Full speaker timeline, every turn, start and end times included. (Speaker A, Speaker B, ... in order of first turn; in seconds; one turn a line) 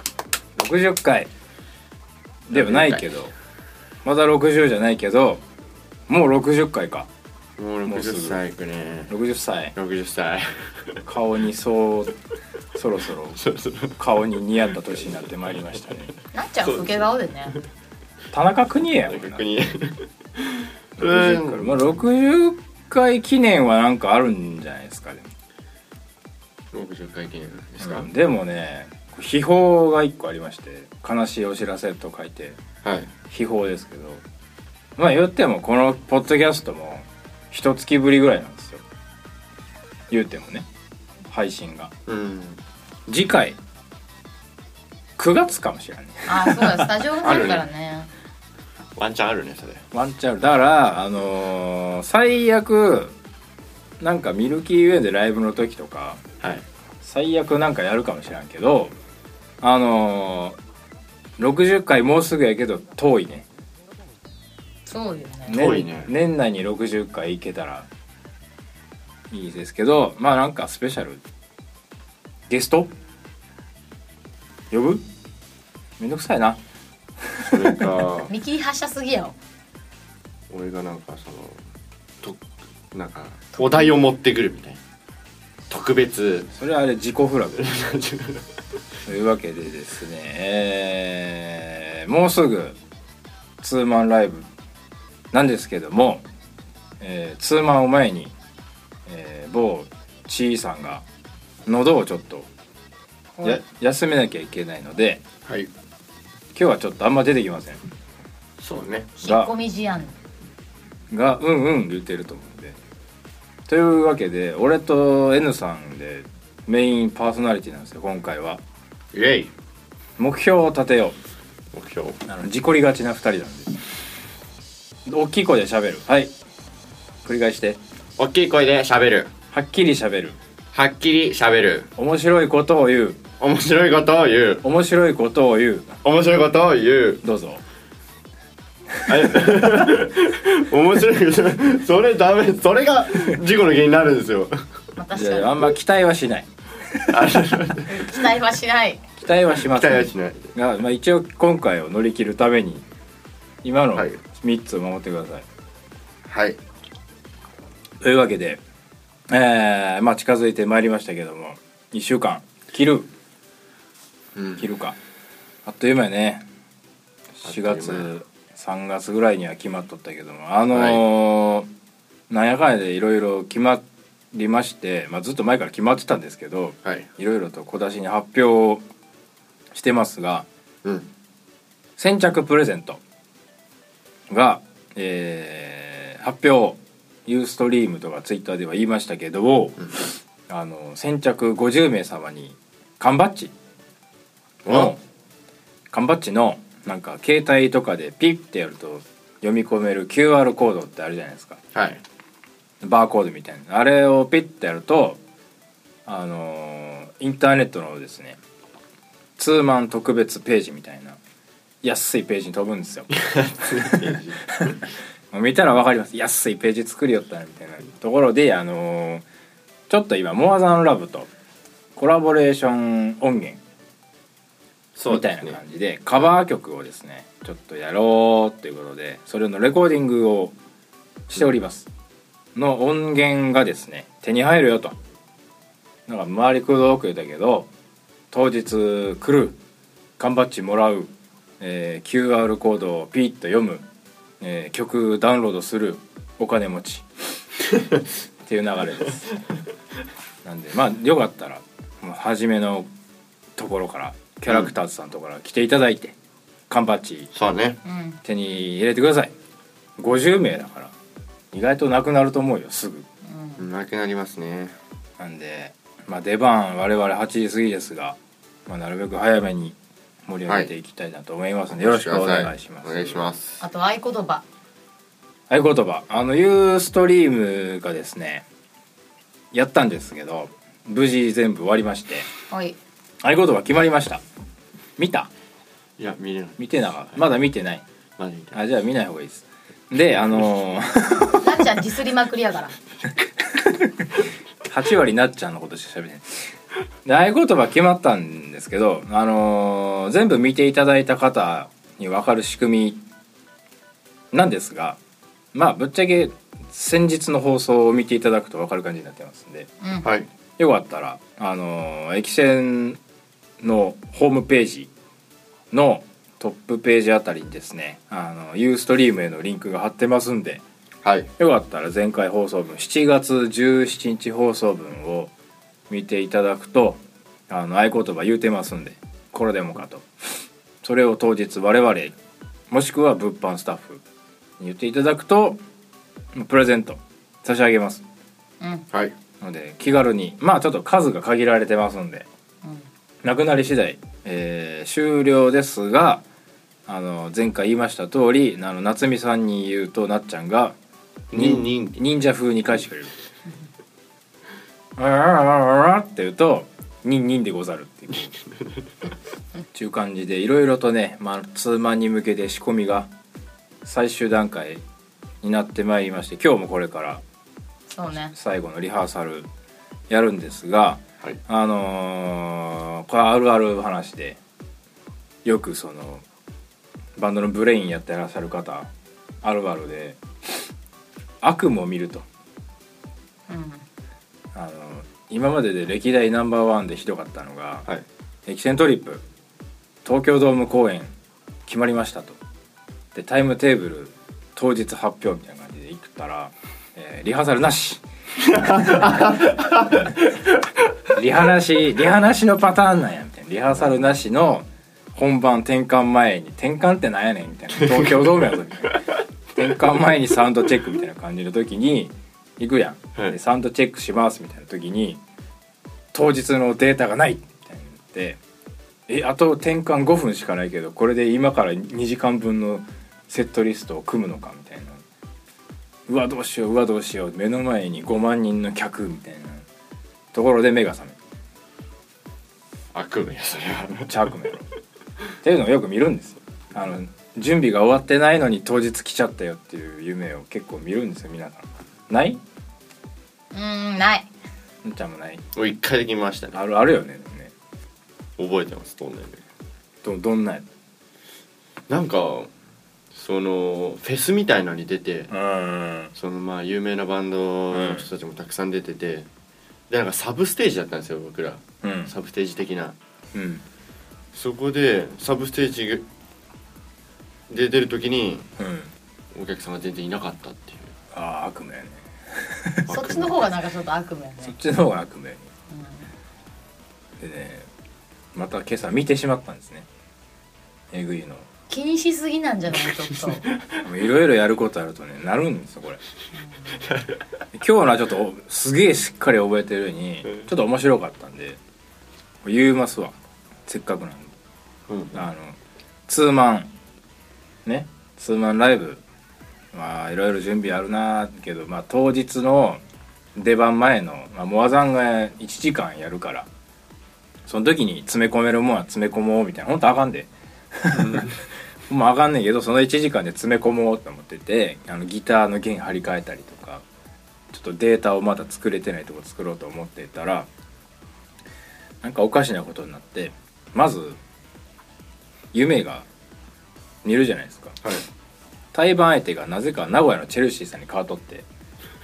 Speaker A: 0.6-1.3
Speaker A: 2.5-3.3
Speaker B: 2.5-3.1
Speaker A: 4.0-5.4
Speaker A: 6.1-7.1
Speaker B: 7.6-9.1
Speaker A: 7.8-8.4
Speaker A: 9.1-9.7
Speaker B: 9.7-11.0
Speaker A: 11.1-12.2
Speaker A: 12.7-13.4
Speaker B: 13.3-14.0
Speaker A: 14.0-16.1
Speaker B: 15.0-15.3
Speaker C: 16.3-17.6
Speaker B: 16.6-17.6
Speaker A: 18.3-19.4
Speaker B: 19.1-21.9
Speaker A: 21.0-25.3
Speaker B: 26.7-28.1
Speaker A: 27.8-32.6
Speaker B: 32.8-33.1
Speaker A: 33.3-34.2
Speaker A: 35.0-38.8
Speaker A: 40.1-40.6
Speaker A: 41.3-41.9
Speaker B: 42.1-42.6
Speaker A: 43.1-43.6
Speaker A: 45.2-46.9
Speaker C: 46.3-48.1
Speaker B: 47.2-47.6
Speaker B: 49.0-49.9
Speaker A: 49.9-53.1
Speaker A: 54.0-56.2
Speaker B: 56.4-56.6
Speaker A: 57.0-58.9
Speaker A: 59.6-60.6
Speaker A: 61.4-63.4
Speaker C: 64.9-65.7
Speaker A: 65.5-67.9
Speaker B: 65.5-66.1
Speaker A: 69.3-71.2
Speaker A: 72.5-72.9
Speaker A: 74.7-75.0
Speaker A: 76.0-76.6
Speaker A: 77.2-77.9
Speaker B: 77.5-78.3
Speaker C: 78.3-79.3
Speaker B: 80.5-81.6
Speaker B: 82.9-84.8
Speaker B: 85.7-86.5
Speaker A: 86.5-87.7
Speaker B: 87.6-88.5
Speaker A: 89.0-92.8
Speaker A: 93.6-94.5
Speaker A: 95.3-96.2
Speaker A: 97.0-98.3
Speaker A: 99.0-101.0
Speaker A: 101.7-102.5
Speaker A: 103.4-105.2
Speaker B: 105.4-105.7
Speaker A: 106.5-107.8
Speaker B: 108.6-109.1
Speaker C: 109.2-110.1
Speaker A: 109.2-109.5
Speaker A: 111.1-112.8
Speaker A: 113.7-118.6
Speaker B: 119.1-119.5
Speaker A: 120.2-121.2
Speaker B: 121.7-122.2
Speaker A: 122.2-123.8
Speaker A: 125.1-126.3
Speaker A: 127.2-127.8
Speaker B: 128.2-129.3
Speaker A: 129.5-130.4
Speaker B: 130.7-131.9
Speaker A: 131.9-133.2
Speaker B: 133.4-134.6
Speaker A: 134.6-136.0
Speaker B: 136.0-137.2
Speaker A: 137.2-137.6
Speaker B: 139.1-144.6
Speaker C: 144.9-145.7
Speaker A: 145.1-147.2
Speaker B: 147.1-148.1
Speaker C: 147.9-149.0
Speaker A: 149.2-152.8
Speaker B: 149.5-150.6
Speaker A: 153.6-155.4
Speaker B: 156.2-156.6
Speaker A: 158.0-158.6
Speaker A: 159.3-163.1
Speaker B: 164.3-164.7
Speaker A: 164.6-165.0
Speaker A: 165.6-166.4
Speaker A: 167.4-171.7
Speaker B: 167.4-168.1
Speaker B: 170.7-171.0
Speaker A: 172.3-173.8
Speaker A: 174.3-178.8
Speaker A: 179.7-180.4
Speaker A: 182.0-183.0
Speaker A: 184.3-193.5
Speaker B: 194.6-194.9
Speaker A: 194.7-195.0
Speaker A: 195.9-201.6
Speaker B: 201.7-202.0
Speaker A: 202.8-205.2
Speaker A: 206.1-208.4
Speaker A: 209.4-211.2
Speaker A: 211.8-213.1
Speaker B: 213.1-214.7
Speaker A: 213.7-219.2
Speaker A: 219.9-221.3
Speaker A: 221.9-223.6
Speaker B: 224.9-225.6
Speaker A: 225.1-230.5
Speaker A: 231.3-231.9
Speaker A: 232.5-234.9
Speaker A: 236.1-237.7
Speaker A: 238.3-239.6
Speaker A: 240.2-243.8
Speaker A: 244.4-247.1
Speaker A: 248.4-249.4
Speaker A: 250.4-252.9
Speaker A: 253.6-256.1
Speaker A: 256.7-257.3
Speaker B: 257.3-257.8
Speaker C: 257.8-258.2
Speaker A: 258.2-259.3
Speaker A: 260.0-260.9
Speaker A: 261.5-263.1
Speaker C: 263.2-263.7
Speaker B: 263.6-264.8
Speaker A: 265.2-273.2
Speaker B: 271.7-273.6
Speaker C: 273.6-274.4
Speaker A: 275.5-278.4
Speaker A: 279.5-282.3
Speaker C: 282.5-282.8
Speaker A: 283.2-284.2
Speaker A: 285.0-285.3
Speaker B: 286.0-287.2
Speaker A: 286.6-287.8
Speaker B: 288.2-288.6
Speaker A: 288.5-291.6
Speaker C: 291.4-292.7
Speaker A: 293.4-296.5
Speaker A: 297.0-303.0
Speaker A: 304.3-305.0
Speaker A: 305.5-309.7
Speaker C: 309.8-310.1
Speaker B: 310.0-310.3
Speaker A: 310.6-313.0
Speaker A: 313.6-314.9
Speaker A: 315.7-320.6
Speaker B: 321.0-321.3
Speaker A: 321.4-325.3
Speaker A: 325.9-330.1
Speaker A: 330.8-332.1
Speaker A: 332.7-334.0
Speaker A: 334.6-335.6
Speaker A: 336.3-338.0
Speaker C: 338.6-338.9
Speaker A: 339.4-342.2
Speaker C: 342.6-342.9
Speaker A: 343.2-346.2
Speaker A: 346.9-350.8
Speaker B: 351.3-352.0
Speaker A: 351.3-353.1
Speaker A: 355.0-358.4
Speaker A: 359.7-363.1
Speaker A: 363.8-364.8
Speaker A: 365.4-367.2
Speaker C: 367.9-368.3
Speaker A: 368.3-369.5
Speaker A: 370.1-374.4
Speaker A: 375.4-376.2
Speaker A: 377.2-378.9
Speaker A: 379.4-380.6
Speaker A: 381.4-382.2
Speaker C: 383.5-383.8
Speaker A: 384.5-387.9
Speaker A: 388.5-389.2
Speaker A: 390.0-391.1
Speaker A: 391.7-392.4
Speaker A: 393.1-398.0
Speaker B: 398.4-400.1
Speaker A: 398.7-399.3
Speaker A: 401.1-415.2
Speaker B: 407.8-408.2
Speaker A: 416.1-418.4
Speaker A: 419.1-425.0
Speaker A: 426.1-429.6
Speaker A: 430.3-431.2
Speaker B: 432.9-434.1
Speaker A: 433.9-434.7
Speaker A: 435.4-442.4
Speaker C: 443.5-444.3
Speaker A: 444.8-445.4
Speaker B: 445.5-446.6
Speaker A: 446.5-447.5
Speaker B: 448.4-449.4
Speaker A: 450.0-450.6
Speaker B: 451.9-452.5
Speaker B: 453.1-455.3
Speaker A: 455.3-456.1
Speaker B: 456.1-459.3
Speaker A: 457.7-458.1
Speaker B: 459.9-462.9
Speaker A: 461.8-462.1
Speaker A: 463.3-463.6
Speaker B: 464.3-466.1
Speaker B: 467.5-468.5
Speaker A: 468.6-468.9
Speaker B: 469.3-470.9
Speaker A: 471.1-472.9
Speaker B: 472.9-473.5
Speaker C: 472.9-474.5
Speaker A: 474.4-475.5
Speaker C: 475.7-476.1
Speaker A: 477.2-477.7
Speaker A: 478.3-479.9
Speaker A: 480.9-481.5
Speaker C: 481.7-483.5
Speaker A: 483.8-486.0
Speaker C: 486.3-486.8
Speaker B: 486.8-487.2
Speaker A: 487.5-491.6
Speaker A: 492.4-493.1
Speaker A: 493.7-494.3
Speaker B: 494.9-495.2
Speaker A: 495.1-495.6
Speaker A: 496.1-496.7
Speaker A: 497.6-499.0
Speaker A: 499.7-502.8
Speaker A: 503.4-506.5
Speaker A: 507.4-511.4
Speaker B: 510.9-511.4
Speaker A: 511.9-516.8
Speaker A: 517.5-520.5
Speaker A: 522.0-524.2
Speaker A: 525.5-526.0
Speaker A: 527.0-527.8
Speaker A: 528.7-531.5